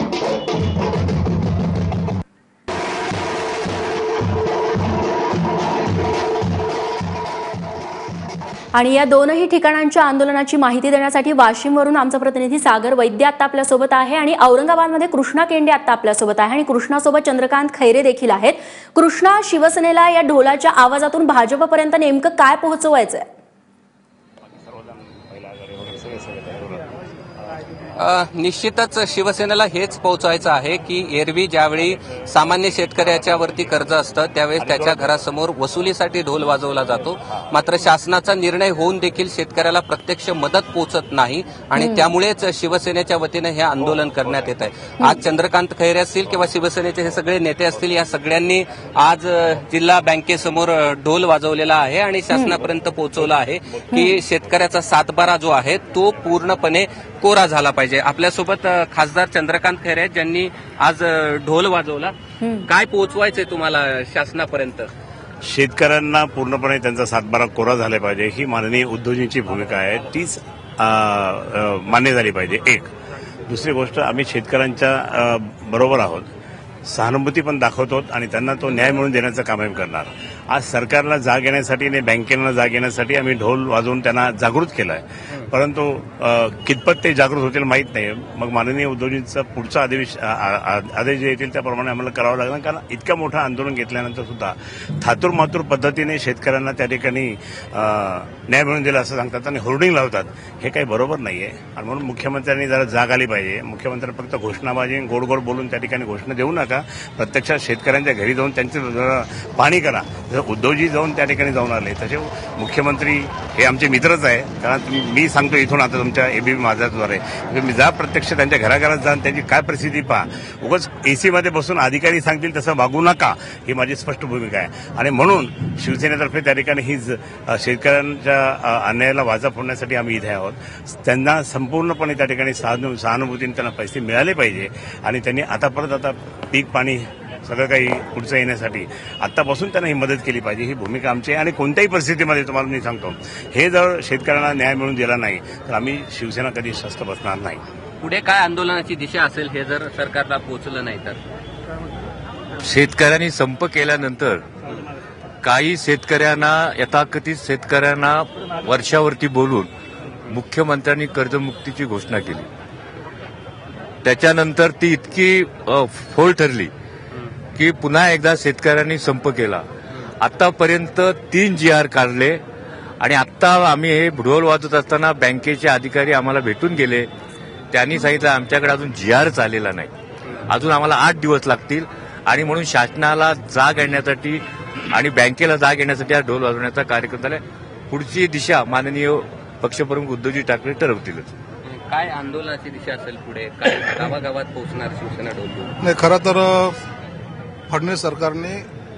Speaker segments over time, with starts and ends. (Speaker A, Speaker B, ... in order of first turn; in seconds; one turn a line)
Speaker A: 8.7-23.3
Speaker B: 24.8-26.9
Speaker C: 28.0-64.9
Speaker A: 41.8-42.1
Speaker B: 65.4-72.9
Speaker B: 73.5-76.3
Speaker B: 76.9-147.6
Speaker C: 148.0-151.2
Speaker D: 152.6-154.4
Speaker D: 155.4-159.7
Speaker D: 160.3-162.5
Speaker D: 164.0-166.7
Speaker D: 167.6-169.7
Speaker D: 170.2-172.4
Speaker D: 173.0-177.1
Speaker D: 177.7-179.9
Speaker D: 180.5-191.3
Speaker C: 191.7-195.7
Speaker E: 195.8-196.8
Speaker E: 197.7-198.7